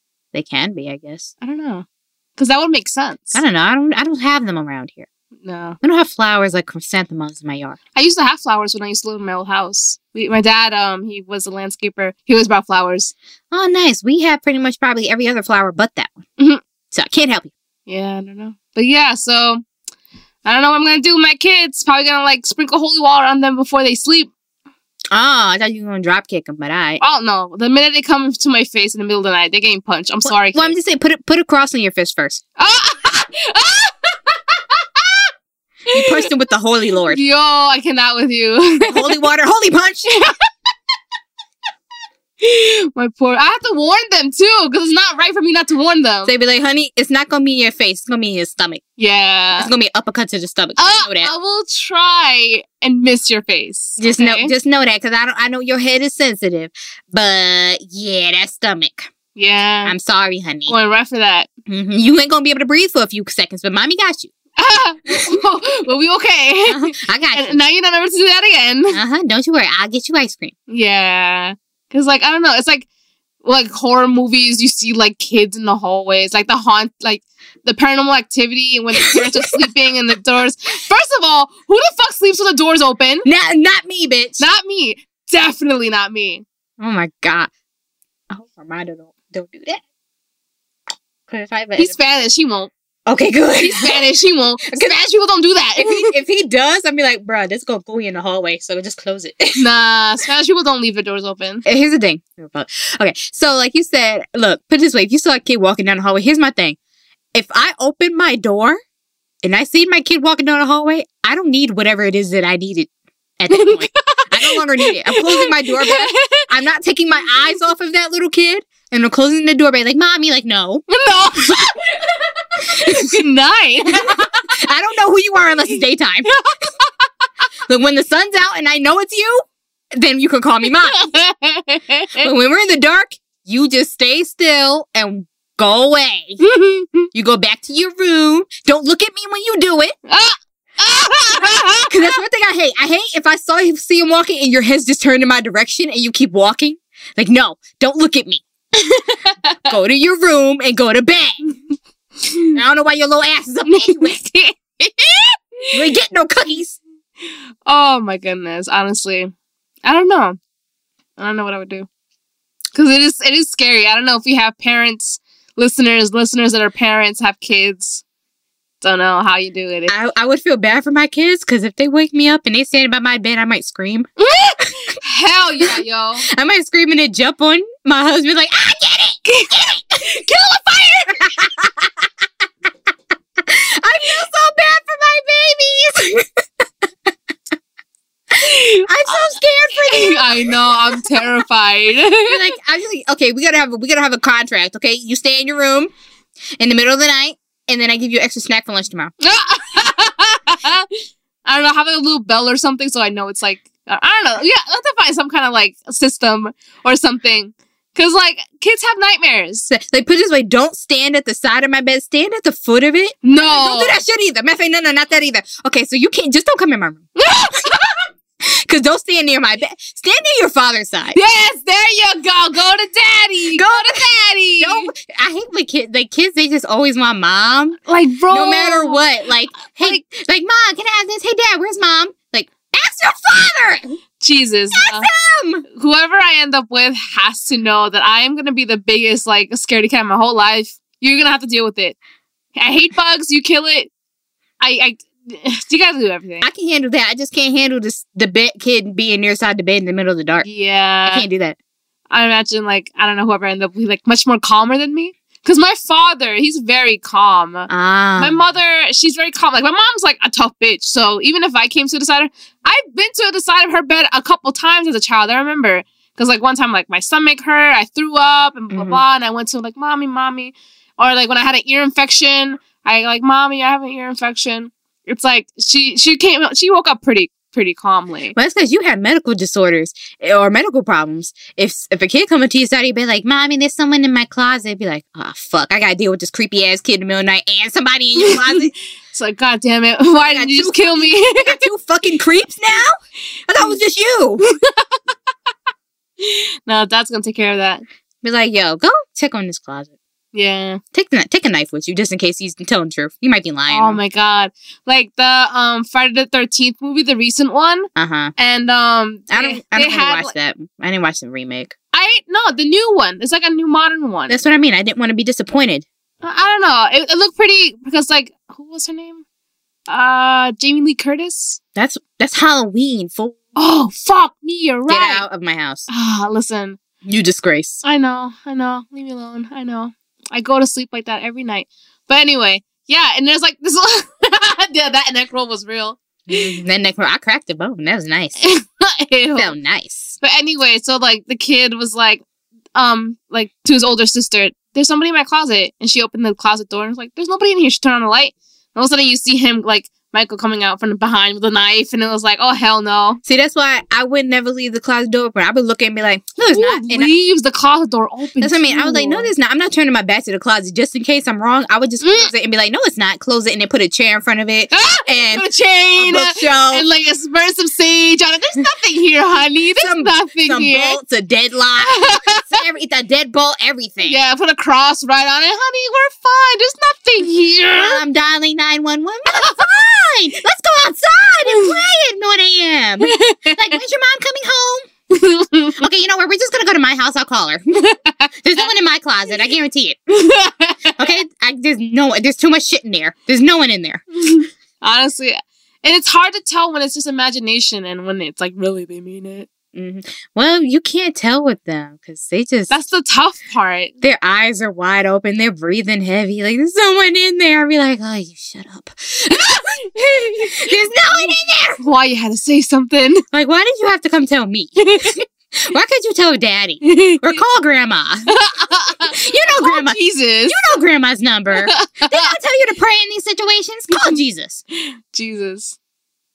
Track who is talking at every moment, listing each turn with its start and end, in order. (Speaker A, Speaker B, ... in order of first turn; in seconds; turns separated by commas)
Speaker A: 0.3-1.3, Speaker B: 1.4-1.8, Speaker B: 2.4-3.4, Speaker A: 3.3-5.1, Speaker B: 5.4-5.8, Speaker A: 5.8-7.8, Speaker B: 7.9-13.1, Speaker A: 13.5-16.2, Speaker A: 16.9-17.5, Speaker B: 17.9-19.6, Speaker B: 20.4-24.3, Speaker A: 25.1-27.0, Speaker B: 27.0-30.8, Speaker A: 30.2-32.4, Speaker B: 32.6-35.3, Speaker A: 35.9-37.2, Speaker B: 35.9-36.3, Speaker B: 37.1-39.2, Speaker A: 38.8-40.3, Speaker B: 42.4-46.3, Speaker A: 46.2-48.8, Speaker B: 49.0-49.7, Speaker A: 49.5-51.3, Speaker B: 50.8-54.5, Speaker A: 54.0-59.1, Speaker B: 59.3-59.9, Speaker A: 59.8-60.8, Speaker B: 60.7-61.5, Speaker A: 61.7-64.3, Speaker B: 64.6-69.0, Speaker A: 66.7-67.6, Speaker A: 68.9-70.5, Speaker B: 70.7-72.8, Speaker B: 73.4-83.2, Speaker A: 83.2-84.5, Speaker B: 84.4-86.4, Speaker A: 86.8-87.5, Speaker A: 88.3-89.8, Speaker A: 91.3-91.9, Speaker B: 91.8-92.7, Speaker A: 93.0-94.0, Speaker B: 93.6-96.1, Speaker A: 94.6-95.0, Speaker A: 95.8-99.6, Speaker B: 99.5-101.6, Speaker A: 101.6-106.8, Speaker A: 107.3-108.8, Speaker A: 109.4-121.6, Speaker B: 113.5-116.5, Speaker B: 120.9-124.5, Speaker A: 122.7-123.2, Speaker A: 124.0-126.3, Speaker A: 127.7-131.1, Speaker B: 130.9-132.3, Speaker A: 132.2-136.4, Speaker B: 136.4-137.1, Speaker A: 137.1-139.9, Speaker B: 140.1-142.1, Speaker A: 141.9-148.4, Speaker B: 148.8-149.7, Speaker A: 149.7-151.5, Speaker B: 152.2-152.5, Speaker A: 152.5-154.2, Speaker B: 153.7-155.8, Speaker A: 155.7-156.8, Speaker B: 157.6-159.3, Speaker B: 159.8-160.4, Speaker B: 161.2-161.9, Speaker B: 162.7-168.0, Speaker B: 168.8-169.9, Speaker A: 169.9-174.1, Speaker B: 174.2-176.3, Speaker A: 176.3-179.8, Speaker B: 179.2-181.4, Speaker A: 181.2-181.9, Speaker A: 183.4-186.4, Speaker B: 188.3-192.4, Speaker A: 188.9-191.3, Speaker A: 192.2-195.9, Speaker A: 196.6-199.1, Speaker B: 199.2-200.9, Speaker B: 201.4-209.7, Speaker A: 209.7-217.1, Speaker B: 213.2-214.0, Speaker B: 217.2-218.0, Speaker A: 218.4-221.2, Speaker B: 221.1-224.9, Speaker A: 223.5-224.1, Speaker A: 224.6-227.8, Speaker B: 227.8-229.0, Speaker A: 228.3-234.0, Speaker B: 229.6-230.0, Speaker B: 234.2-235.1, Speaker A: 234.7-235.6, Speaker B: 235.7-242.0, Speaker B: 242.5-243.9, Speaker B: 244.6-246.5, Speaker A: 246.4-250.4, Speaker B: 250.4-251.2, Speaker A: 251.1-251.6, Speaker B: 252.1-278.4, Speaker A: 257.7-258.4, Speaker A: 268.7-269.0, Speaker A: 278.3-288.7, Speaker B: 288.2-291.7, Speaker A: 290.3-292.9, Speaker A: 293.5-294.4, Speaker B: 294.4-295.0, Speaker B: 296.2-297.8, Speaker A: 298.2-299.9, Speaker B: 300.3-300.8, Speaker A: 300.9-304.0, Speaker B: 303.7-310.3, Speaker A: 307.9-308.3, Speaker A: 309.3-311.7, Speaker B: 311.9-314.4, Speaker A: 314.3-315.9, Speaker B: 316.2-319.2, Speaker B: 319.9-321.6, Speaker A: 321.8-323.4, Speaker B: 323.6-325.2, Speaker A: 324.9-325.9, Speaker B: 325.9-326.8, Speaker A: 327.0-327.8, Speaker B: 327.8-336.5, Speaker A: 336.3-338.4, Speaker B: 338.4-339.5, Speaker A: 339.3-340.1, Speaker B: 340.2-342.2, Speaker B: 342.7-353.2, Speaker A: 353.2-357.1, Speaker B: 356.5-359.3, Speaker A: 358.4-366.8, Speaker B: 362.0-362.3, Speaker B: 364.7-371.0, Speaker A: 369.8-374.2, Speaker B: 371.8-372.6, Speaker B: 374.0-378.0, Speaker A: 377.7-384.9, Speaker B: 379.3-379.6, Speaker B: 381.5-381.7, Speaker B: 383.0-383.8, Speaker B: 385.1-385.8, Speaker A: 385.8-387.9, Speaker B: 387.8-388.7, Speaker A: 388.4-390.0, Speaker B: 390.1-391.2, Speaker A: 391.0-394.0, Speaker B: 394.2-399.5, Speaker A: 399.7-402.8, Speaker B: 402.7-403.9, Speaker A: 404.0-411.8, Speaker B: 409.9-413.2, Speaker A: 413.3-418.4, Speaker B: 414.8-415.2, Speaker B: 416.8-417.4, Speaker B: 418.3-420.6, Speaker A: 419.0-424.6, Speaker B: 421.5-422.4, Speaker B: 423.9-424.2, Speaker B: 424.8-425.8